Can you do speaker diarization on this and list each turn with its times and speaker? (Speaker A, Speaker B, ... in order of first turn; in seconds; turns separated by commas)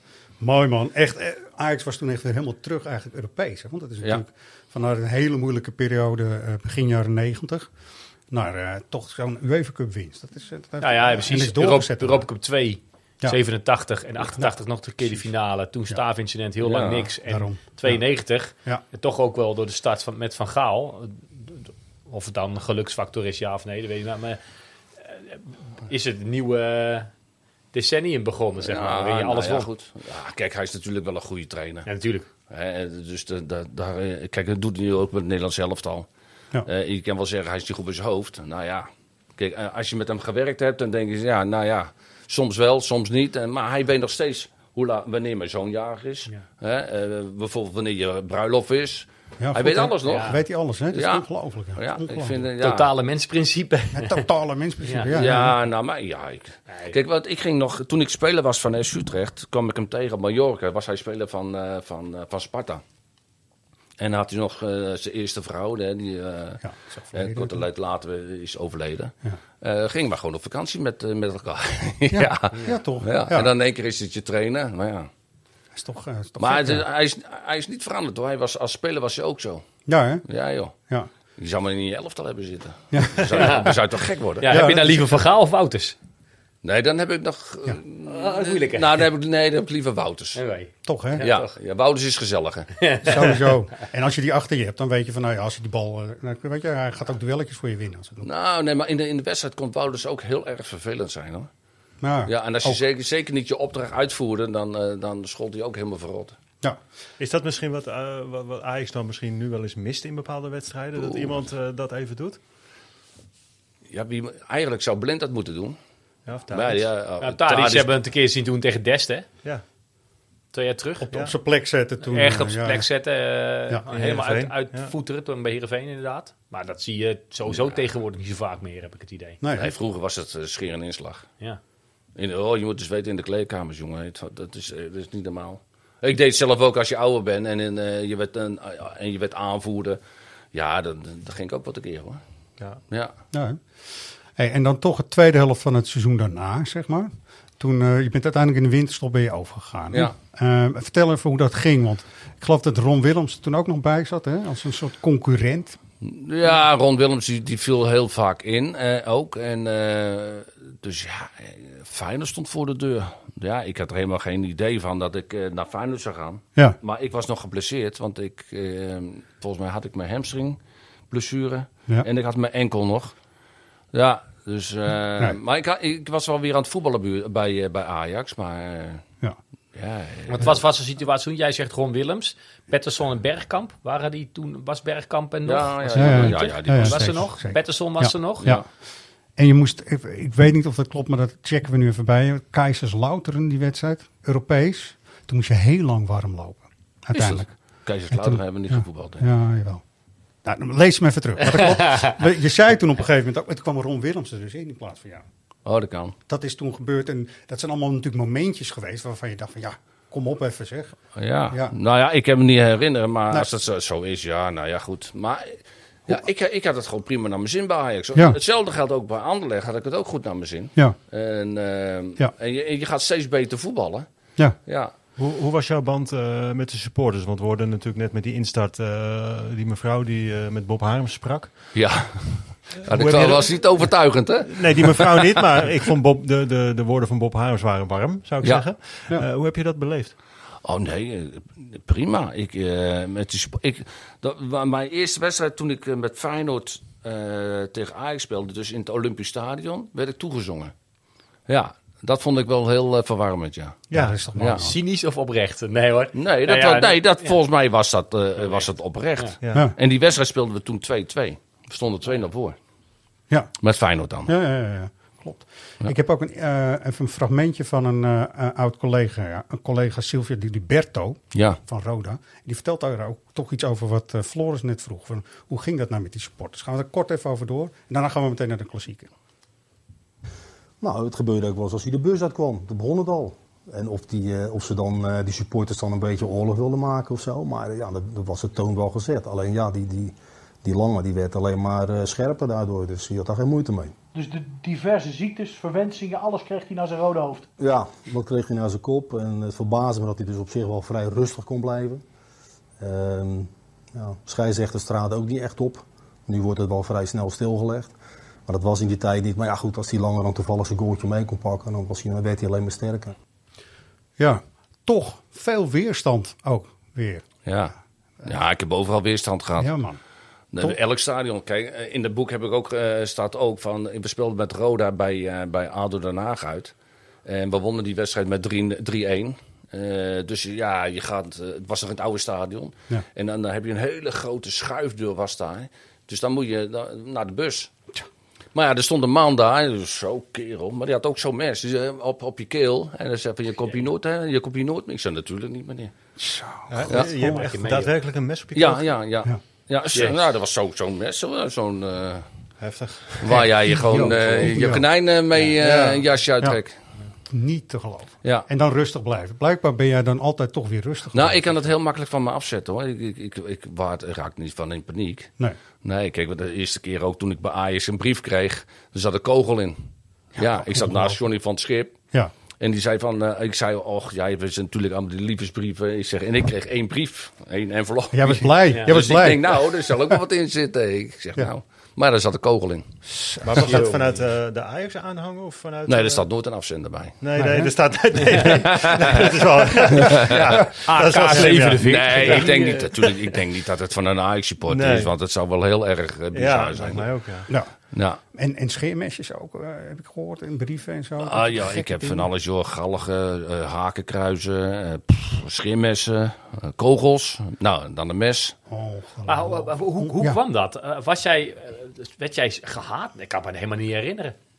Speaker A: 0.4-7.7, Speaker A: 8.3-12.2, Speaker B: 10.8-24.4, Speaker C: 16.6-17.1, Speaker A: 17.2-18.0, Speaker B: 25.0-27.1, Speaker B: 27.7-29.7, Speaker C: 28.6-31.9, Speaker B: 31.9-32.3, Speaker C: 32.5-36.1, Speaker C: 36.6-50.4, Speaker A: 49.4-52.5, Speaker B: 50.0-50.4, Speaker C: 50.9-52.9, Speaker B: 52.6-54.2, Speaker A: 53.9-55.5, Speaker B: 54.8-55.1, Speaker C: 55.1-62.8, Speaker B: 56.7-57.0, Speaker C: 64.0-66.6, Speaker A: 66.6-67.6, Speaker C: 67.1-75.1, Speaker A: 72.1-73.5, Speaker A: 75.7-76.8, Speaker C: 76.4-79.6, Speaker A: 79.9-80.2, Speaker C: 80.3-80.7, Speaker C: 81.4-84.6, Speaker A: 82.9-83.7, Speaker B: 83.3-83.8, Speaker B: 84.4-86.0, Speaker A: 84.5-85.2, Speaker C: 86.6-90.4, Speaker B: 88.1-88.9, Speaker B: 90.3-91.5, Speaker A: 90.8-91.3, Speaker C: 91.2-92.7, Speaker B: 92.8-93.4, Speaker A: 93.0-98.3, Speaker C: 98.2-101.5, Speaker A: 102.0-102.8, Speaker C: 102.3-106.3, Speaker D: 107.2-112.4, Speaker C: 111.0-111.3, Speaker C: 113.9-115.8, Speaker D: 116.2-116.9, Speaker C: 116.5-117.9, Speaker B: 117.2-119.3, Speaker B: 120.5-121.1, Speaker A: 121.0-122.8, Speaker B: 122.0-129.4, Speaker D: 123.9-124.9, Speaker A: 129.4-129.7, Speaker C: 129.6-131.3, Speaker C: 132.2-140.0, Speaker C: 140.5-142.2, Speaker A: 143.3-143.6, Speaker A: 144.3-155.8, Speaker C: 156.0-170.6, Speaker C: 171.1-173.1, Speaker C: 173.9-179.0, Speaker C: 179.7-180.6, Speaker B: 180.3-188.5, Speaker C: 185.4-187.2, Speaker A: 185.9-188.6, Speaker A: 189.4-197.5, Speaker C: 197.1-199.2, Speaker A: 198.1-199.8, Speaker A: 200.4-205.2, Speaker C: 205.7-206.1, Speaker A: 206.3-211.0, Speaker C: 211.2-224.1, Speaker C: 224.7-224.9, Speaker D: 225.2-231.5, Speaker C: 231.7-235.3, Speaker D: 232.8-233.9, Speaker D: 234.4-240.1, Speaker C: 240.6-250.7, Speaker C: 251.5-253.8, Speaker D: 253.9-254.2, Speaker A: 253.9-254.7, Speaker C: 254.4-254.7, Speaker B: 254.6-257.3, Speaker C: 256.1-262.6, Speaker B: 258.4-258.6, Speaker D: 259.4-259.7, Speaker C: 263.6-264.3, Speaker A: 264.2-279.1, Speaker C: 271.3-271.6, Speaker E: 280.8-293.9, Speaker F: 294.1-297.5, Speaker E: 297.6-302.0, Speaker E: 302.8-307.9, Speaker E: 308.5-313.1, Speaker A: 314.2-317.2, Speaker C: 317.4-319.7, Speaker A: 319.6-320.0, Speaker C: 320.5-326.7, Speaker C: 327.2-337.7, Speaker C: 338.5-345.9, Speaker A: 346.2-347.3, Speaker D: 346.7-348.9, Speaker B: 347.0-347.9, Speaker C: 348.5-352.2, Speaker D: 352.6-353.4, Speaker C: 353.2-356.7, Speaker A: 353.3-354.8, Speaker D: 354.0-354.4, Speaker D: 355.6-356.0, Speaker A: 357.3-361.5, Speaker C: 361.1-365.3, Speaker C: 365.8-369.8, Speaker A: 370.4-371.2, Speaker C: 370.4-371.9, Speaker C: 372.6-382.9, Speaker A: 378.1-380.1, Speaker A: 383.1-383.5, Speaker D: 383.4-386.2, Speaker B: 383.6-384.0, Speaker C: 385.9-387.1, Speaker D: 387.2-393.1, Speaker A: 387.4-387.7, Speaker C: 388.5-389.3, Speaker C: 389.9-390.7, Speaker B: 390.8-392.9, Speaker C: 391.3-397.1, Speaker D: 394.6-395.1, Speaker D: 396.3-397.5, Speaker C: 397.9-398.2, Speaker A: 398.3-402.3, Speaker C: 401.2-408.5, Speaker A: 408.7-410.4, Speaker B: 409.3-414.4